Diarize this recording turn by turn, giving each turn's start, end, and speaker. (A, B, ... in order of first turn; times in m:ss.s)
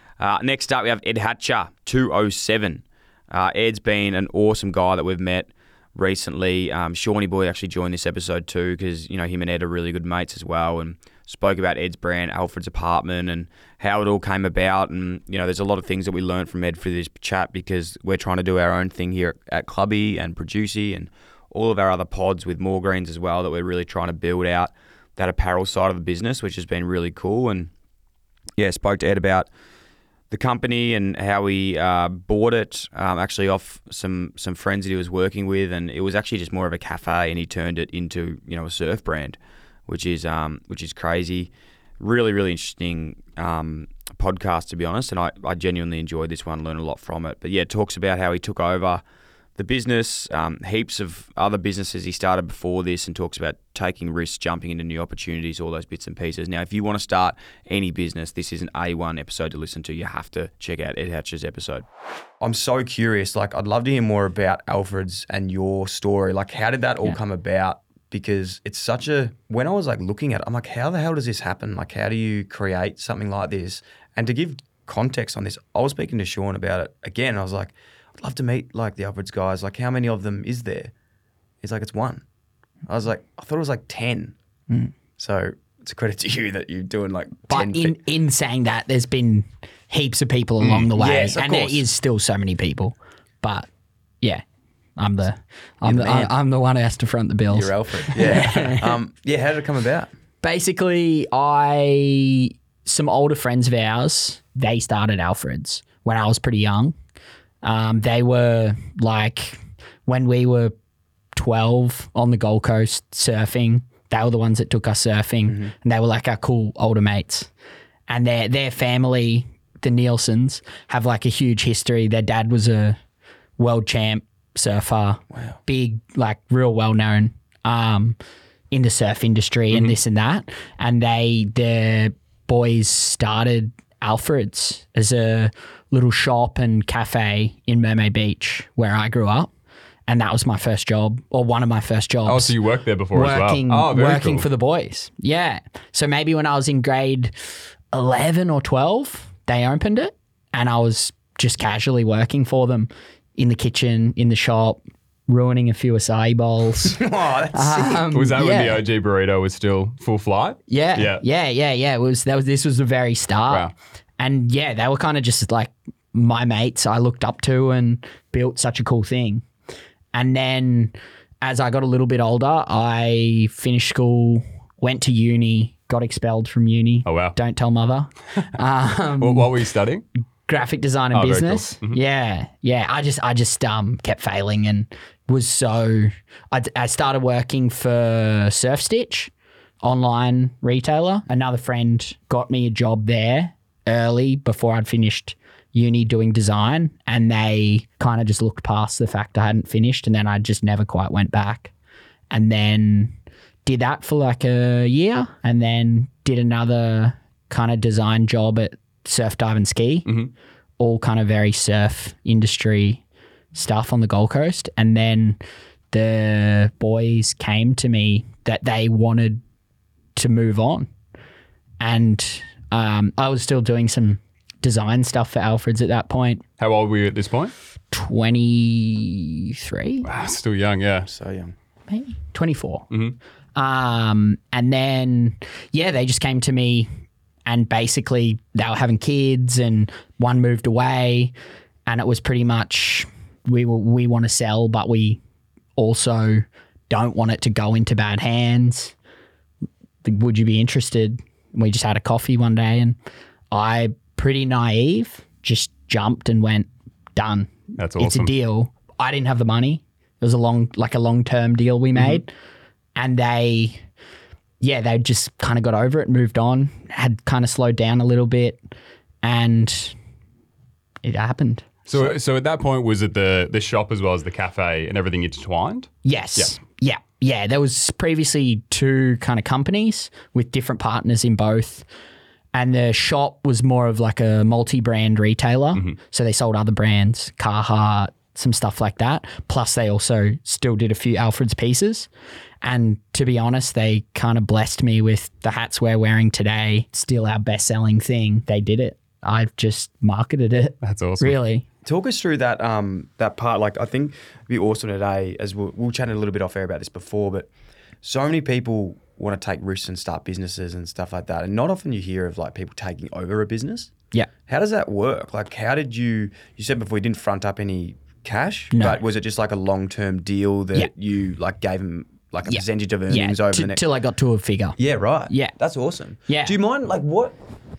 0:00.2-0:27.7 A
0:28.6-0:29.5 A
0:30.3-0:49.0 A
0:49.6-1:01.8 A
1:02.4-1:20.9 A
1:21.6-1:22.2 A
1:22.9-1:24.3 A
1:25.2-1:28.0 A
1:27.5-1:33.7 B
1:30.6-1:30.9 C
1:31.0-1:31.8 A
1:35.0-1:39.0 B
1:35.8-1:36.3 A
1:37.5-1:40.1 A
1:40.4-1:46.9 B
1:47.6-1:50.7 B
1:51.3-1:57.5 B
1:55.5-1:55.7 A
1:58.1-2:03.0 B
2:03.6-2:08.2 B
2:08.7-2:19.5 B
2:09.7-2:10.0 C
2:20.1-2:27.3 B
2:22.2-2:24.5 C
2:27.9-2:37.0 B
2:36.8-2:38.1 A
2:37.5-2:38.8 B
2:38.1-2:41.2 C
2:40.7-2:49.4 B
2:50.1-2:59.7 B
2:57.0-2:57.4 C
2:59.2-3:00.0 C
3:00.5-3:09.3 B
3:01.1-3:02.0 C
3:09.8-3:21.7 B
3:22.3-3:30.3 B
3:30.8-3:33.0 B
3:33.5-3:35.4 B
3:35.9-3:39.4 B
3:40.2-3:40.9 B
3:41.8-3:46.4 B
3:46.6-3:47.5 C
3:47.9-3:50.1 B
3:50.0-3:51.1 C
3:51.0-3:51.5 A
3:51.9-3:52.9 B
3:53.5-3:56.9 B
3:57.4-4:01.3 B
4:01.9-4:05.2 B
4:05.8-4:08.9 B
4:10.0-4:13.0 B
4:13.5-4:22.3 B
4:17.8-4:18.3 C
4:21.9-4:22.2 C
4:23.0-4:23.8 B
4:24.6-4:28.6 B
4:29.2-4:30.0 B
4:31.0-4:32.1 B
4:31.8-4:36.5 C
4:36.0-4:41.9 B
4:42.5-4:52.1 B
4:45.7-4:46.0 C
4:52.6-5:01.6 B
5:00.8-5:01.4 C
5:01.8-5:07.5 A
5:08.0-5:13.9 A
5:14.5-5:23.8 A
5:18.7-5:19.0 B
5:22.4-5:25.6 B
5:24.8-5:27.4 A
5:26.3-5:26.6 B